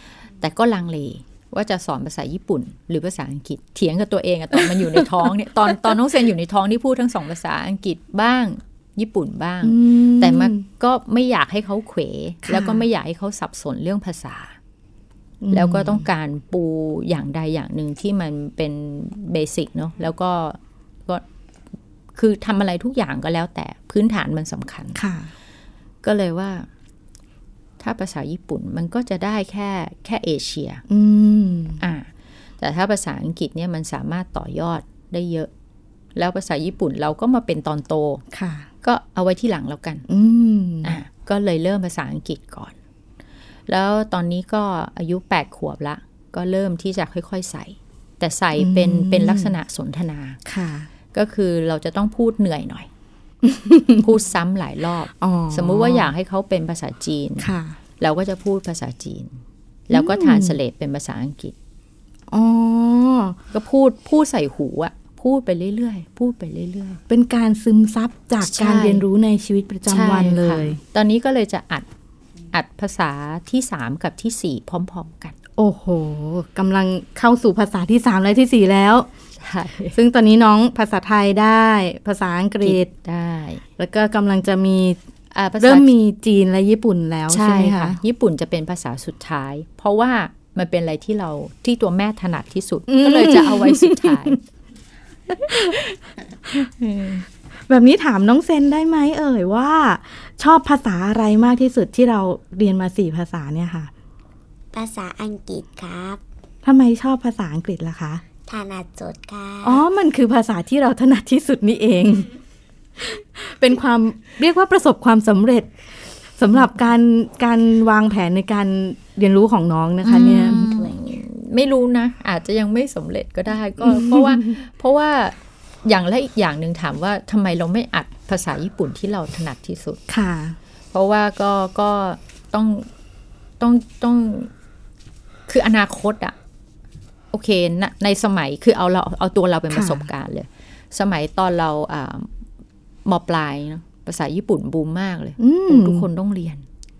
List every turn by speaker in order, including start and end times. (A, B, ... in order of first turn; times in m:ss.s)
0:00.4-0:14.6 A
0:04.7-0:05.1 B
0:09.6-0:10.6 B
0:12.4-0:12.8 B
0:15.4-0:16.1 B
0:15.5-0:21.2 A
0:22.1-0:25.0 A
0:24.9-0:25.3 B
0:26.0-0:26.7 A
0:27.8-0:30.8 A
0:30.9-0:31.8 B
0:31.8-0:35.5 A
0:36.1-0:38.2 A
0:38.3-0:38.7 B
0:38.8-0:40.0 A
0:40.1-0:41.0 B
0:40.8-0:42.7 A
0:43.7-0:50.4 A
0:48.6-0:49.5 B
0:50.4-0:50.9 B
0:51.1-0:52.9 A
0:53.4-0:54.0 B
0:54.0-1:01.5 A
0:55.2-0:56.1 B
0:57.4-0:57.8 B
0:59.9-1:00.6 B
1:02.3-1:03.4 B
1:03.5-1:07.0 A
1:07.1-1:10.8 B
1:08.4-1:09.0 A
1:09.8-1:11.9 A
1:12.5-1:15.3 A
1:15.6-1:19.1 B
1:19.4-1:20.0 A
1:19.9-1:22.9 B
1:22.6-1:23.6 A
1:23.8-1:25.0 B
1:25.3-1:25.9 A
1:25.6-1:28.0 B
1:27.3-1:34.4 A
1:32.9-1:34.4 B
1:35.3-1:35.8 B
1:36.8-1:37.2 A
1:37.7-1:43.9 B
1:44.7-1:46.2 C
1:46.6-1:48.2 B
1:48.5-1:49.8 C
1:49.6-1:52.3 B
1:53.0-1:55.7 B
1:56.4-2:00.8 B
2:00.0-2:10.0 A
2:03.8-2:04.5 B
2:10.1-2:10.6 B
2:10.9-2:12.9 A
2:13.6-2:14.5 A
2:15.5-2:16.3 A
2:17.3-2:22.3 A
2:19.7-2:20.1 B
2:23.0-2:26.6 A
2:25.4-2:26.0 B